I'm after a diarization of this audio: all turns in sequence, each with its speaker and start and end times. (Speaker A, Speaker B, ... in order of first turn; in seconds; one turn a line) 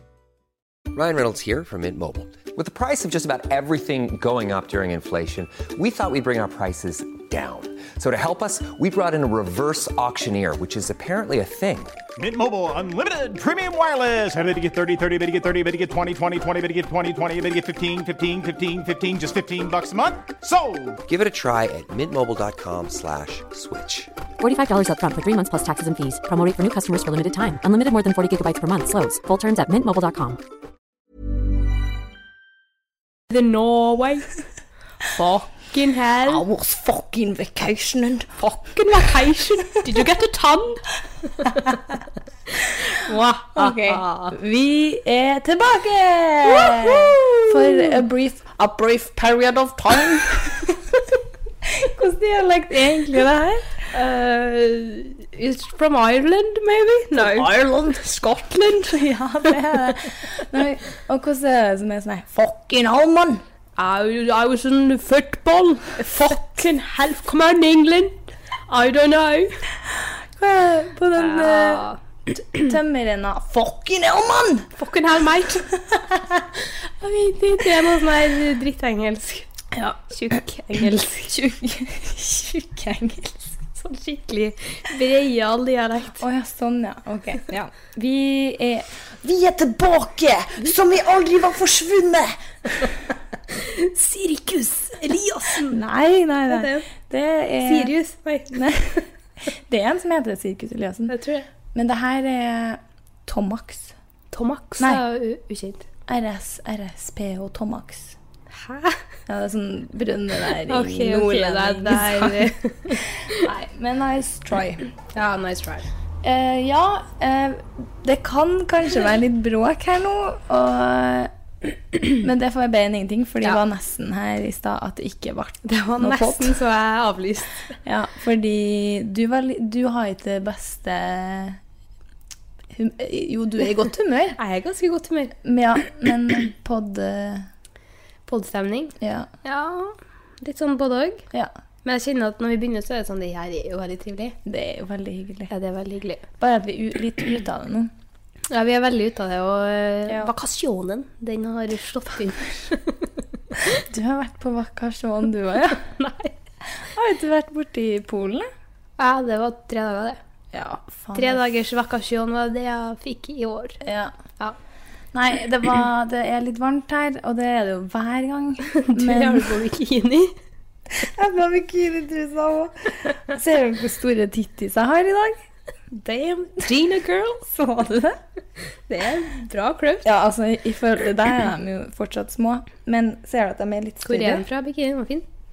Speaker A: 0.9-12.0
Speaker B: 12.2-21.0
Speaker A: 21.1-24.1
Speaker C: 24.4-30.4
Speaker D: 33.3-34.3
Speaker D: 35.1-36.5
Speaker E: 36.2-38.4
Speaker D: 38.4-41.7
Speaker E: 41.5-41.8
Speaker D: 42.5-44.4
Speaker E: 43.5-51.0
Speaker D: 46.5-48.0
Speaker E: 51.6-53.7
Speaker D: 53.9-57.5
Speaker E: 57.1-63.4
Speaker D: 59.5-60.0
Speaker D: 63.8-69.6
Speaker E: 66.0-66.6
Speaker E: 70.0-74.7
Speaker D: 71.2-72.0
Speaker D: 74.8-75.7
Speaker E: 75.8-76.5
Speaker D: 77.0-79.5
Speaker E: 79.7-80.0
Speaker D: 80.0-81.4
Speaker E: 81.3-83.6
Speaker D: 83.8-86.2
Speaker E: 86.1-93.0
Speaker D: 93.5-95.8
Speaker E: 95.6-97.9
Speaker D: 96.5-96.9
Speaker D: 97.6-98.5
Speaker E: 98.5-101.1
Speaker D: 101.1-101.5
Speaker E: 101.7-104.0
Speaker D: 104.3-105.9
Speaker E: 106.1-108.2
Speaker D: 108.5-109.0
Speaker E: 109.3-114.9
Speaker D: 110.7-113.5
Speaker D: 115.1-115.9
Speaker E: 116.2-121.3
Speaker E: 122.0-126.6
Speaker D: 125.7-127.7
Speaker E: 127.8-131.6
Speaker E: 132.7-134.4
Speaker D: 134.4-135.4
Speaker E: 135.4-137.5
Speaker D: 138.3-141.3
Speaker E: 139.0-139.3
Speaker D: 141.8-144.4
Speaker E: 144.4-145.5
Speaker D: 145.5-146.3
Speaker E: 146.4-147.9
Speaker D: 148.5-153.1
Speaker E: 153.8-156.0
Speaker D: 155.9-156.3
Speaker E: 156.8-158.5
Speaker D: 159.0-160.2
Speaker E: 160.5-161.6
Speaker D: 161.2-163.8
Speaker E: 163.8-164.1
Speaker E: 165.1-169.6
Speaker D: 168.8-170.3
Speaker E: 170.9-175.4
Speaker D: 175.9-177.5
Speaker E: 177.5-178.2
Speaker D: 178.9-180.1
Speaker E: 180.0-184.4
Speaker D: 184.0-185.3